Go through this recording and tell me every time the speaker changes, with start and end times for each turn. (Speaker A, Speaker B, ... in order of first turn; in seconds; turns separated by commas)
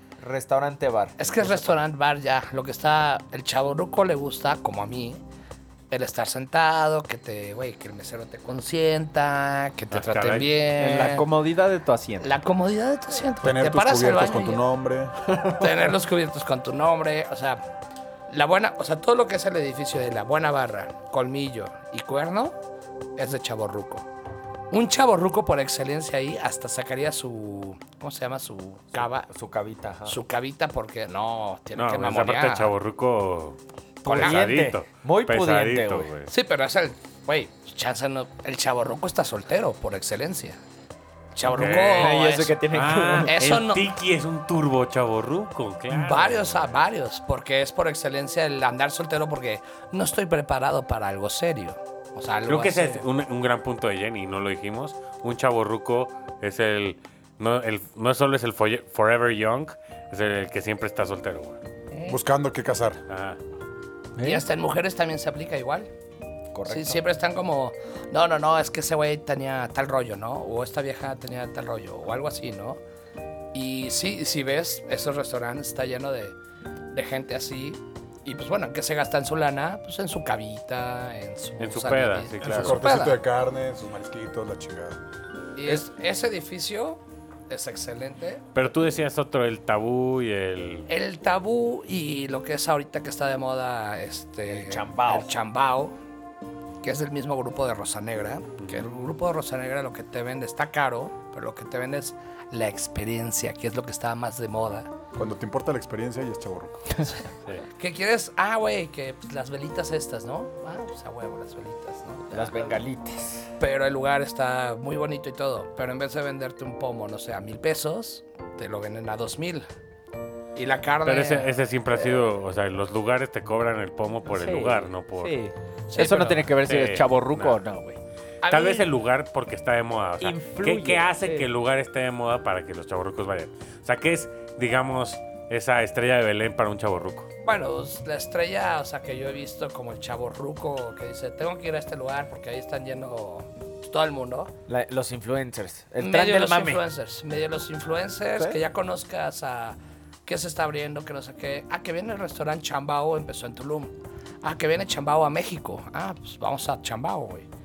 Speaker A: 0.2-1.5, Speaker B: 1.2-5.2, Speaker B: 5.9-11.3, Speaker C: 9.9-10.5, Speaker D: 10.8-12.3, Speaker B: 12.2-14.6, Speaker E: 13.4-15.2, Speaker B: 15.5-17.6, Speaker B: 18.3-22.6, Speaker B: 23.2-24.1, Speaker B: 24.7-29.3, Speaker A: 29.0-30.2, Speaker B: 30.1-32.7, Speaker C: 31.8-36.3, Speaker B: 34.0-34.6, Speaker A: 34.1-36.1, Speaker B: 36.3-40.6, Speaker B: 41.3-42.6, Speaker C: 41.5-46.9, Speaker D: 41.6-43.3, Speaker B: 43.3-43.9, Speaker B: 45.9-53.0, Speaker C: 52.5-61.6, Speaker E: 62.1-63.0, Speaker C: 63.1-63.4, Speaker A: 64.2-64.4, Speaker B: 64.2-65.9, Speaker A: 66.5-67.0, Speaker B: 66.7-72.8, Speaker B: 73.5-76.4, Speaker B: 76.9-83.2, Speaker C: 81.6-83.1, Speaker E: 82.4-85.0, Speaker B: 85.6-88.4, Speaker C: 88.5-90.9, Speaker B: 90.9-96.0, Speaker A: 94.5-95.3, Speaker B: 96.8-104.9, Speaker C: 98.6-98.9, Speaker E: 105.2-107.0, Speaker B: 107.8-112.8, Speaker A: 112.3-113.5, Speaker B: 113.6-119.7, Speaker B: 120.5-121.5, Speaker C: 121.0-125.4, Speaker D: 124.3-128.0, Speaker B: 125.9-126.5, Speaker C: 126.5-127.6, Speaker B: 128.4-128.9, Speaker C: 128.5-137.3, Speaker D: 130.2-131.5, Speaker B: 137.4-144.5, Speaker A: 144.7-146.8, Speaker B: 146.0-157.5